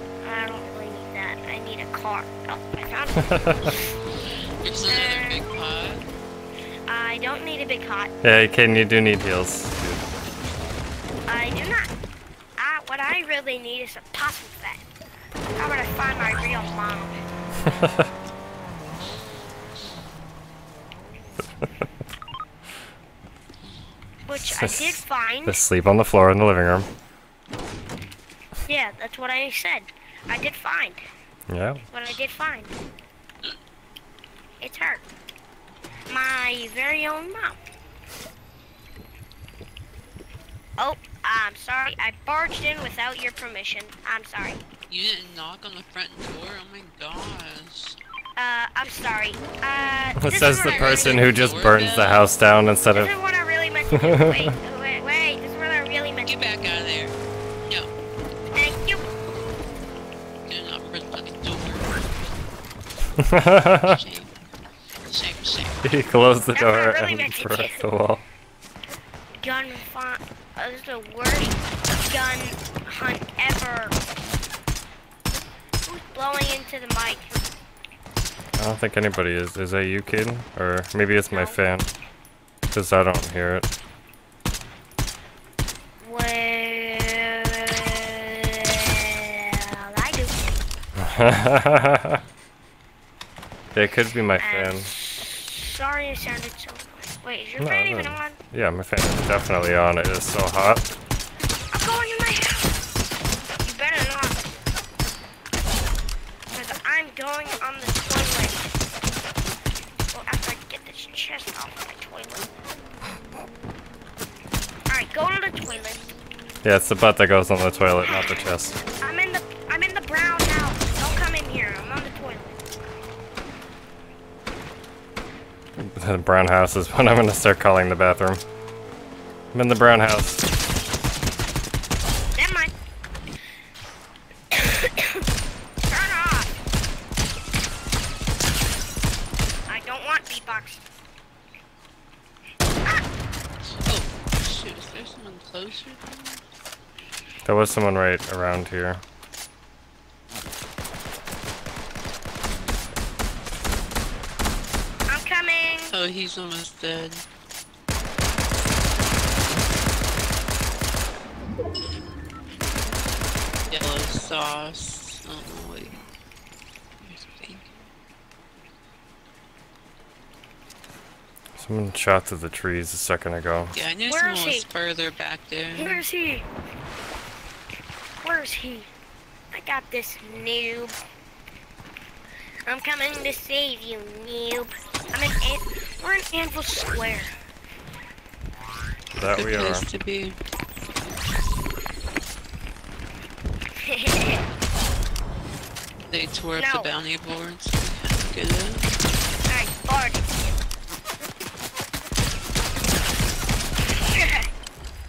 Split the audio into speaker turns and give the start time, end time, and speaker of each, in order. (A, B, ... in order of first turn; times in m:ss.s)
0:00.2-0:03.9 A
0:04.6-0:06.1 B
0:04.8-0:05.4 A
0:06.9-0:08.1 A
0:08.2-0:10.1 C
0:11.3-0:11.9 A
0:12.6-0:14.8 A
0:15.6-0:17.2 A
0:24.3-0:25.6 A
0:24.3-0:26.9 C
0:28.6-0:31.0 A
0:31.5-0:31.8 C
0:31.9-0:32.7 A
0:34.6-0:35.1 A
0:36.1-0:37.6 A
0:40.8-0:44.6 A
0:44.9-0:48.0 B
0:48.4-0:51.3 A
0:50.2-0:53.1 C
0:50.6-0:52.3 B
0:52.9-0:56.4 A
0:53.9-0:54.6 C
0:56.2-0:57.9 B
0:58.5-0:59.0 A
1:00.4-1:02.0 B
1:03.2-1:03.9 C
1:03.7-1:04.4 B
1:05.0-1:06.0 B
1:05.8-1:08.2 C
1:06.5-1:07.8 A
1:09.4-1:14.0 A
1:15.8-1:17.4 A
1:18.6-1:21.9 C
1:21.3-1:21.6 A
1:22.7-1:23.6 C
1:26.0-1:30.3 A
1:31.0-1:32.2 C
1:33.7-1:34.9 C
1:34.4-1:38.4 A
1:37.6-1:40.8 C
1:41.7-1:42.7 A
1:43.6-1:44.4 A
1:46.5-1:48.9 A
1:50.1-1:52.5 A
1:54.9-1:56.2 A
1:56.6-1:58.8 C
1:58.1-1:58.4 A
1:59.0-2:02.6 A
2:05.8-2:08.4 C
2:09.5-2:10.5 C
2:12.3-2:12.7 A
2:14.5-2:15.2 A
2:15.8-2:16.5 A
2:19.7-2:20.8 A
2:23.8-2:26.4 B
2:27.4-2:29.0 C
2:35.1-2:36.0 A
2:35.9-2:37.2 B
2:43.7-2:46.0 B
2:47.0-2:47.8 B
2:51.6-2:53.7 C
2:53.7-2:56.0 B
2:54.1-2:54.7 A
2:55.7-2:56.4 A
2:58.2-2:58.9 A
2:59.5-3:01.0 A
3:02.7-3:07.3 A
3:09.1-3:09.8 C
3:09.3-3:10.4 B
3:13.8-3:14.4 A
3:16.1-3:19.0 B
3:16.6-3:16.9 A
3:19.5-3:20.3 A
3:24.0-3:24.5 A